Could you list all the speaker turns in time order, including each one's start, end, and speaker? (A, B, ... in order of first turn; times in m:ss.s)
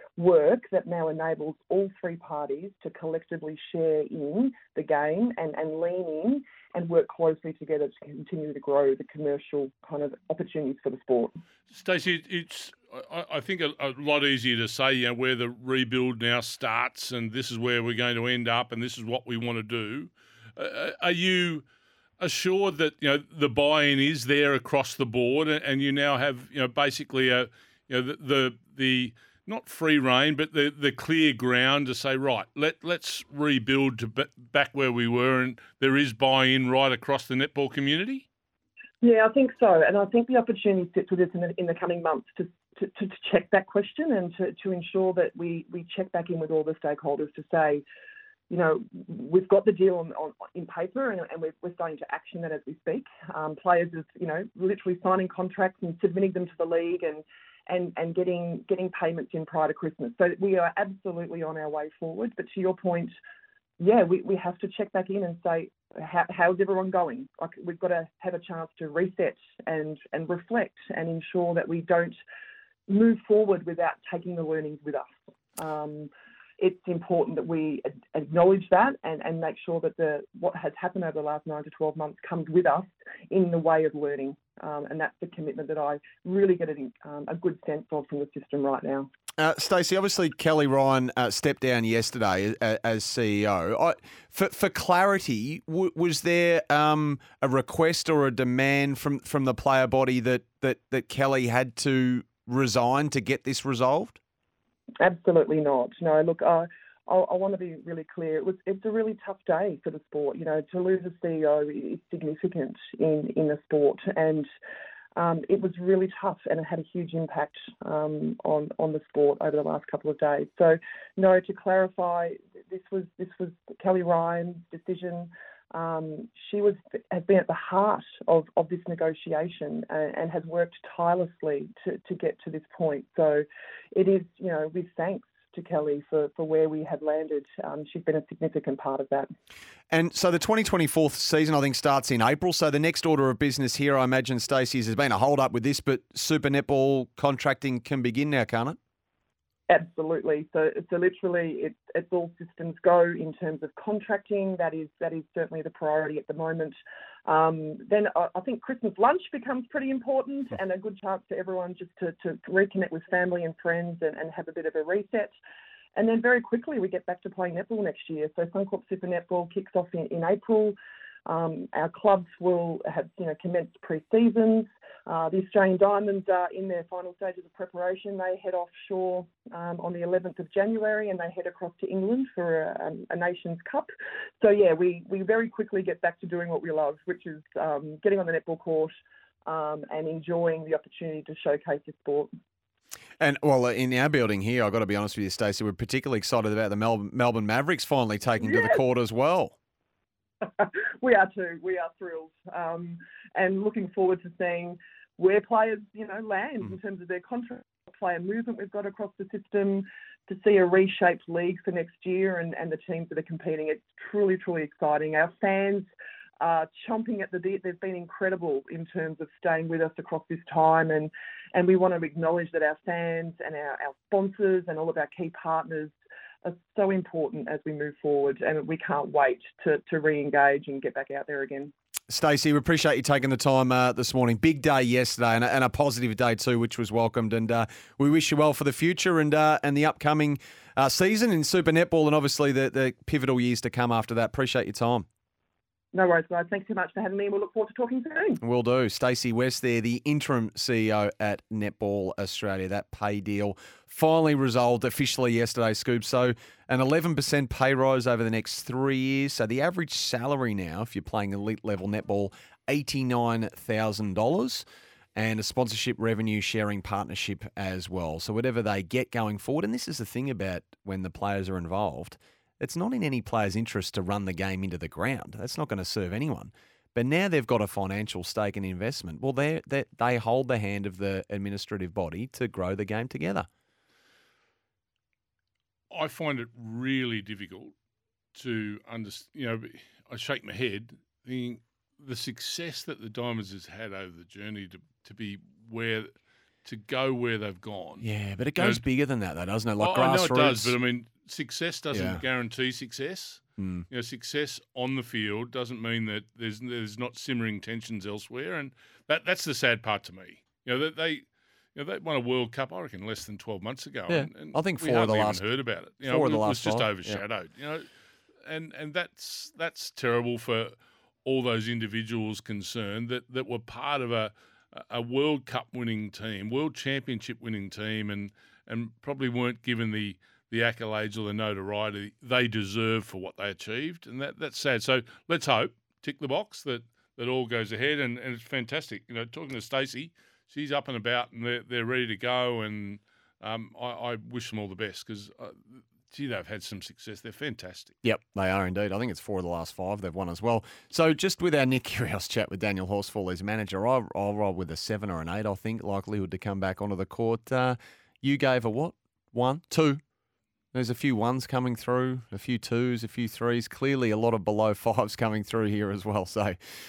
0:00.2-0:11.3 A
0:11.7-0:21.6 B
0:22.2-0:38.2 B
0:39.0-0:47.8 A
0:48.5-1:03.1 A
1:03.8-1:12.2 A
1:12.9-1:29.1 A
1:29.4-1:44.2 C
1:45.0-1:54.5 A
1:55.2-2:19.3 A
2:19.9-2:28.8 C
2:29.7-2:45.3 A
2:45.9-3:03.9 A
3:04.4-3:12.3 A
3:13.2-3:19.5 C
3:18.4-3:18.8 A
3:20.4-3:35.9 A
3:36.4-3:51.7 A
3:52.1-4:05.0 C
4:05.9-4:08.4 A
4:08.4-4:24.6 C
4:25.2-4:43.5 C
4:45.9-4:47.7 B
4:48.3-4:56.1 B
4:56.6-4:58.0 B
4:58.0-5:00.7 C
4:58.6-4:58.8 B
4:59.8-5:17.8 B
5:01.9-5:02.2 C
5:03.6-5:03.9 C
5:14.1-5:15.4 C
5:16.0-5:17.2 C
5:18.4-5:47.9 B
5:48.0-6:00.0 C
6:00.7-6:06.6 C